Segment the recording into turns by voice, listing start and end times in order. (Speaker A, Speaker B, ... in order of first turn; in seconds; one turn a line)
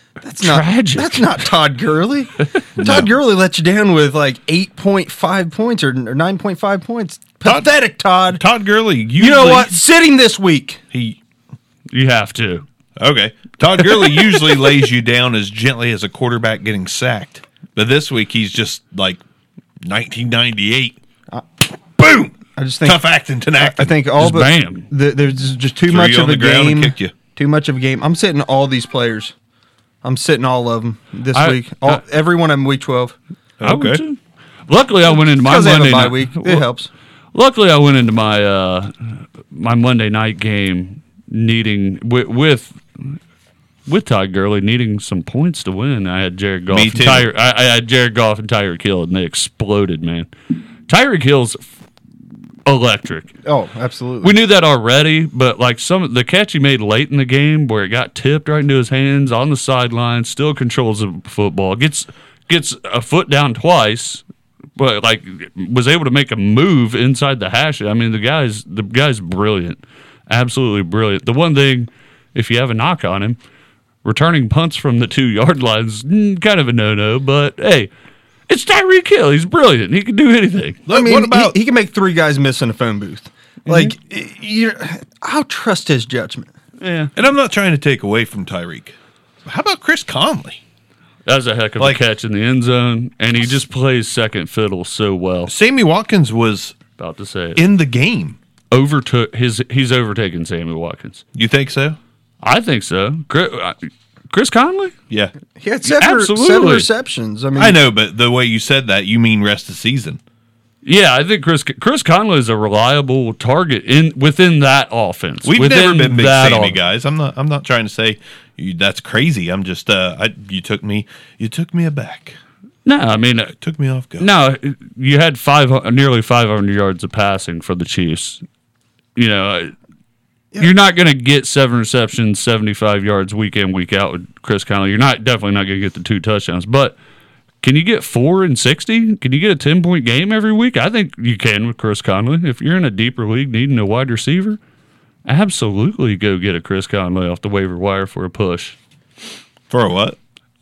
Speaker A: 0.2-8.4
Speaker B: 0.4-1.4
Speaker C: 2.8-3.1
Speaker C: 7.5-7.7
Speaker C: 8.3-9.8
Speaker A: 9.2-10.8
Speaker C: 10.9-11.2
Speaker B: 11.9-12.6
Speaker C: 13.0-19.2
Speaker C: 19.8-21.0
Speaker C: 22.0-23.9
Speaker A: 22.6-29.3
Speaker B: 24.2-24.9
Speaker C: 25.9-27.1
Speaker A: 30.0-33.1
Speaker B: 31.3-32.0
Speaker C: 33.6-34.0
Speaker B: 33.6-36.6
Speaker A: 35.1-36.9
Speaker B: 37.3-43.2
Speaker B: 43.9-50.3
Speaker C: 46.7-47.3
Speaker B: 50.9-51.6
Speaker B: 52.7-53.3
Speaker A: 53.5-54.4
Speaker B: 54.2-64.2
Speaker B: 64.8-73.4
Speaker B: 74.0-77.9
Speaker B: 78.5-80.8
Speaker C: 80.9-81.6
Speaker A: 80.9-86.5
Speaker B: 83.7-83.9
Speaker B: 86.8-87.1
Speaker C: 87.2-90.6
Speaker B: 91.3-95.5
Speaker C: 95.5-96.8
Speaker B: 97.0-97.6
Speaker C: 97.6-98.4
Speaker B: 98.7-101.2
Speaker C: 101.3-102.0
Speaker B: 102.4-105.0
Speaker A: 105.6-107.8
Speaker B: 105.8-106.9
Speaker C: 107.6-110.2
Speaker B: 110.8-116.8
Speaker C: 115.4-122.4
Speaker B: 122.8-123.5
Speaker C: 123.6-124.3
Speaker B: 124.2-128.4
Speaker B: 129.2-129.7
Speaker B: 130.6-137.0
Speaker B: 137.6-144.6
Speaker B: 145.3-148.8
Speaker C: 149.7-150.2